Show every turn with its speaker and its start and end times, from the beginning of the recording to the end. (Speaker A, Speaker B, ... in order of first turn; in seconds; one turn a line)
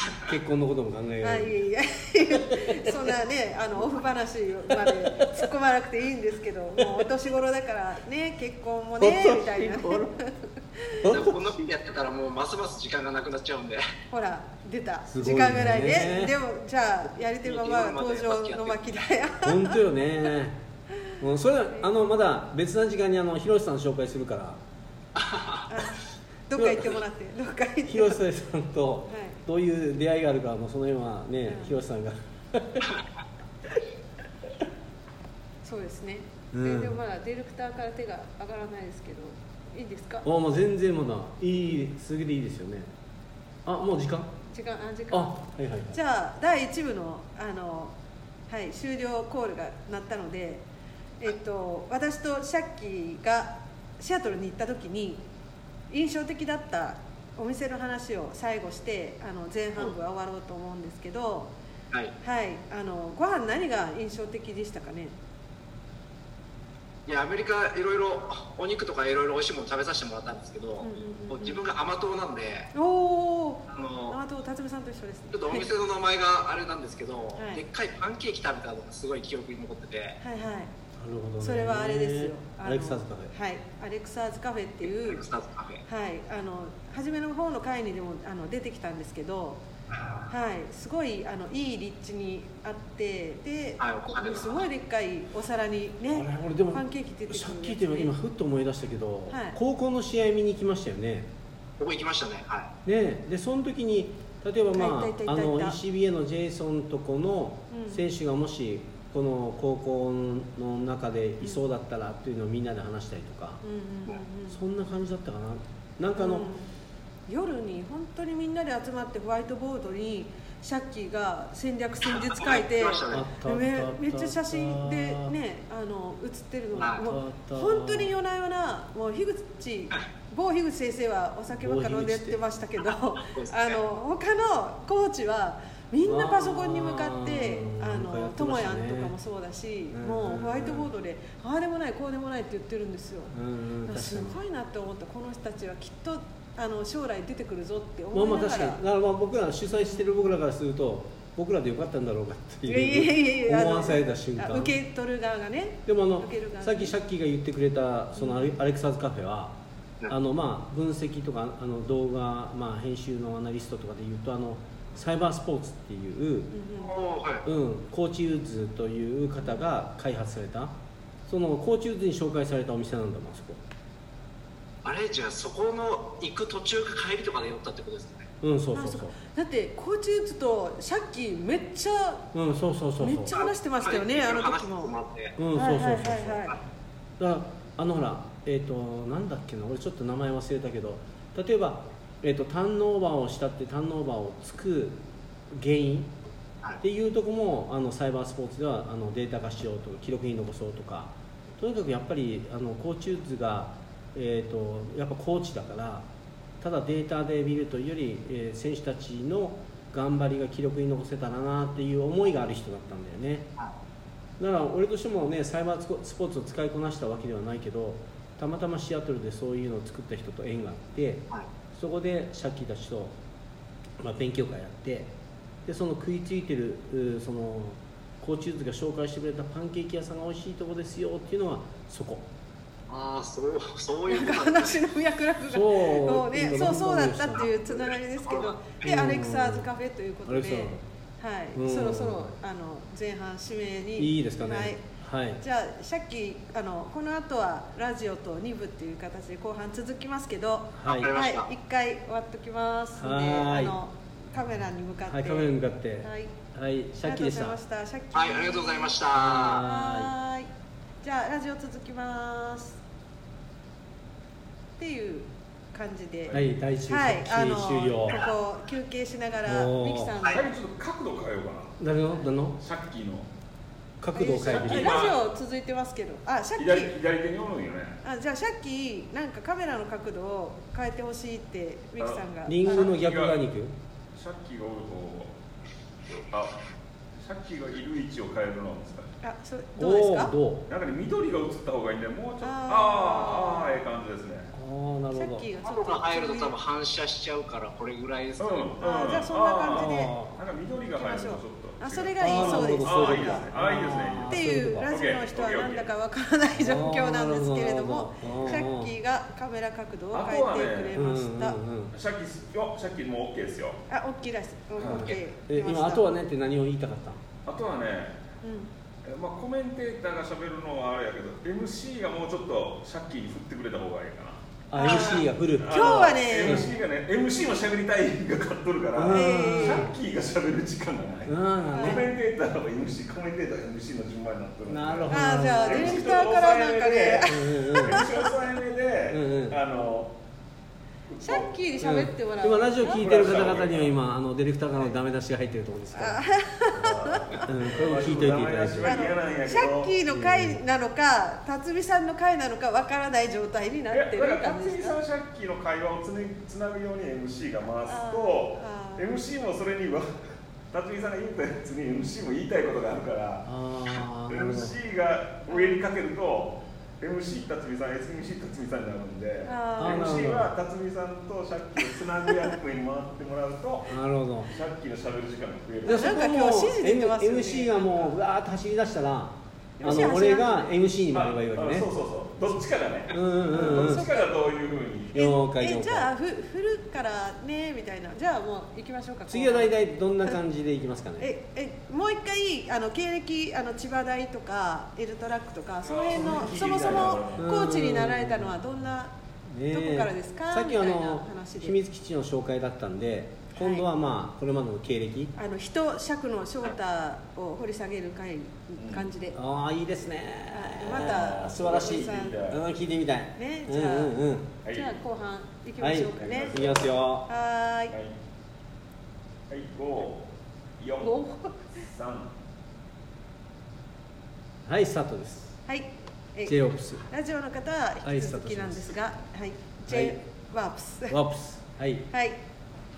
Speaker A: 0.2-1.6
Speaker B: 1.2-11.0
Speaker A: 2.3-3.1
Speaker A: 4.7-5.4
Speaker A: 6.8-7.1
Speaker A: 9.0-10.1
Speaker A: 11.0-11.6
Speaker C: 11.0-13.8
Speaker B: 14.1-19.8
Speaker A: 15.1-16.4
Speaker C: 17.4-18.9
Speaker A: 19.4-20.6
Speaker A: 21.2-24.6
Speaker C: 25.1-25.6
Speaker B: 25.7-28.2
Speaker A: 26.6-26.9
Speaker A: 27.9-32.9
Speaker B: 29.1-29.4
Speaker B: 31.5-31.8
Speaker B: 35.6-40.3
Speaker A: 36.5-37.0
Speaker A: 40.2-42.9
Speaker A: 43.6-44.3
Speaker B: 44.5-47.9
Speaker A: 45.1-46.0
Speaker B: 48.5-50.6
Speaker B: 51.2-55.2
Speaker B: 55.9-61.5
Speaker B: 62.2-65.1
Speaker C: 67.1-72.7
Speaker B: 70.8-71.6
Speaker B: 72.7-75.7
Speaker C: 73.7-74.2
Speaker C: 75.3-80.2
Speaker B: 77.4-77.6
Speaker B: 80.2-80.7
Speaker A: 81.0-83.3
Speaker B: 81.4-85.2
Speaker C: 84.9-85.8
Speaker B: 85.8-89.6
Speaker C: 89.9-90.2
Speaker B: 90.3-98.1
Speaker C: 93.8-94.6
Speaker A: 96.1-101.3
Speaker B: 99.3-99.6
Speaker C: 101.8-102.7
Speaker A: 102.8-113.6
Speaker B: 104.7-105.8
Speaker B: 107.7-108.0
Speaker B: 113.6-114.6
Speaker A: 114.5-116.5
Speaker B: 116.2-116.7
Speaker B: 117.3-143.3
Speaker C: 122.2-123.3
Speaker A: 123.1-125.3
Speaker C: 126.8-127.0
Speaker A: 127.0-128.1
Speaker A: 131.5-132.4
Speaker C: 132.9-133.8
Speaker A: 136.0-139.1
Speaker A: 139.9-140.9
Speaker A: 143.3-144.4
Speaker B: 143.8-148.8
Speaker A: 148.1-154.8
Speaker B: 149.8-150.3
Speaker B: 152.7-156.9
Speaker A: 155.8-159.5
Speaker B: 158.2-158.6
Speaker A: 160.1-166.5
Speaker B: 166.5-166.9
Speaker C: 166.8-167.4
Speaker A: 167.4-170.7
Speaker A: 171.3-173.6
Speaker C: 174.8-178.3
Speaker A: 178.4-179.1
Speaker B: 178.7-182.3
Speaker A: 182.3-183.3
Speaker B: 183.0-184.9
Speaker C: 183.3-185.4
Speaker A: 185.4-186.5
Speaker B: 185.5-186.6
Speaker A: 187.2-196.1
Speaker A: 196.8-206.1
Speaker A: 206.6-213.5
Speaker A: 214.4-223.2
Speaker A: 224.0-225.1
Speaker A: 225.6-232.3
Speaker C: 232.9-234.8
Speaker B: 234.1-244.8
Speaker A: 235.5-237.5
Speaker C: 237.7-238.6
Speaker A: 238.8-239.7
Speaker A: 240.2-240.8
Speaker A: 241.5-242.3
Speaker A: 244.0-245.4
Speaker B: 245.4-256.3
Speaker A: 250.8-251.1
Speaker C: 250.9-251.5
Speaker A: 253.0-253.8
Speaker A: 255.1-257.6
Speaker B: 257.0-259.0
Speaker C: 258.1-259.6
Speaker A: 259.1-260.1
Speaker B: 259.6-260.5
Speaker B: 261.0-262.8
Speaker B: 264.8-270.4
Speaker A: 266.3-268.3
Speaker A: 269.4-270.2
Speaker D: 270.2-271.8
Speaker A: 271.8-272.6
Speaker D: 272.6-273.3
Speaker A: 274.0-275.0
Speaker B: 274.1-276.9
Speaker D: 274.4-275.2
Speaker D: 276.6-278.0
Speaker B: 278.0-282.9
Speaker D: 282.0-283.4
Speaker A: 282.5-283.7
Speaker D: 284.1-285.3
Speaker D: 286.3-286.6
Speaker D: 287.2-289.1
Speaker B: 289.2-290.3
Speaker A: 289.8-290.7
Speaker D: 290.7-294.5
Speaker B: 292.4-293.8
Speaker A: 294.5-295.5
Speaker B: 295.1-296.6
Speaker C: 295.6-298.7
Speaker D: 298.4-305.9
Speaker B: 298.8-300.2
Speaker A: 299.7-300.4
Speaker B: 300.9-303.5
Speaker A: 302.2-304.9
Speaker B: 304.3-311.6
Speaker A: 306.6-308.9
Speaker D: 310.1-310.9
Speaker A: 310.9-311.9
Speaker D: 311.9-313.8
Speaker B: 313.9-316.1
Speaker D: 314.8-315.1
Speaker A: 314.8-317.2
Speaker D: 317.4-318.2
Speaker B: 318.4-318.7
Speaker D: 319.0-340.1
Speaker A: 324.7-326.7
Speaker B: 324.7-326.8
Speaker A: 328.9-329.9
Speaker B: 329.1-329.9
Speaker A: 331.3-332.1
Speaker B: 331.7-332.1
Speaker A: 334.7-336.1
Speaker B: 335.1-338.3
Speaker A: 337.3-338.1
Speaker A: 339.1-339.6
Speaker D: 341.1-341.5
Speaker B: 341.2-343.1
Speaker A: 341.8-346.2
Speaker D: 342.9-343.9
Speaker B: 345.9-347.5
Speaker D: 346.7-349.9
Speaker A: 347.4-349.0
Speaker B: 348.8-355.0
Speaker A: 350.1-350.6
Speaker D: 353.9-360.1
Speaker B: 357.9-359.2
Speaker D: 360.7-363.5
Speaker A: 363.4-364.7
Speaker D: 364.3-376.1
Speaker B: 365.5-365.8
Speaker B: 369.4-370.2
Speaker A: 369.8-370.5
Speaker A: 373.9-374.5
Speaker A: 375.8-381.9
Speaker B: 375.9-378.1
Speaker D: 379.8-380.2
Speaker B: 379.8-380.7
Speaker D: 381.1-385.1
Speaker A: 383.1-384.1
Speaker B: 383.5-384.2
Speaker A: 385.1-386.1
Speaker B: 385.1-390.4
Speaker A: 389.3-391.3
Speaker B: 391.2-399.1
Speaker D: 395.8-397.5
Speaker A: 397.4-398.6
Speaker A: 399.5-405.3
Speaker B: 399.7-401.8
Speaker B: 403.6-403.9
Speaker B: 405.3-409.4
Speaker D: 408.8-409.1
Speaker A: 409.3-414.5
Speaker B: 410.5-412.4
Speaker D: 410.8-412.6
Speaker B: 413.4-414.2
Speaker D: 414.6-414.9
Speaker B: 414.7-416.6
Speaker A: 415.8-417.3
Speaker D: 416.1-416.9
Speaker B: 417.3-417.9
Speaker D: 417.9-418.1
Speaker D: 419.5-420.3
Speaker D: 420.8-421.2
Speaker B: 421.0-421.7
Speaker D: 421.7-422.3
Speaker A: 424.6-425.6
Speaker B: 425.7-431.2
Speaker A: 426.4-427.0
Speaker A: 428.0-428.9
Speaker A: 429.9-430.1
Speaker A: 431.1-432.1
Speaker B: 432.1-432.4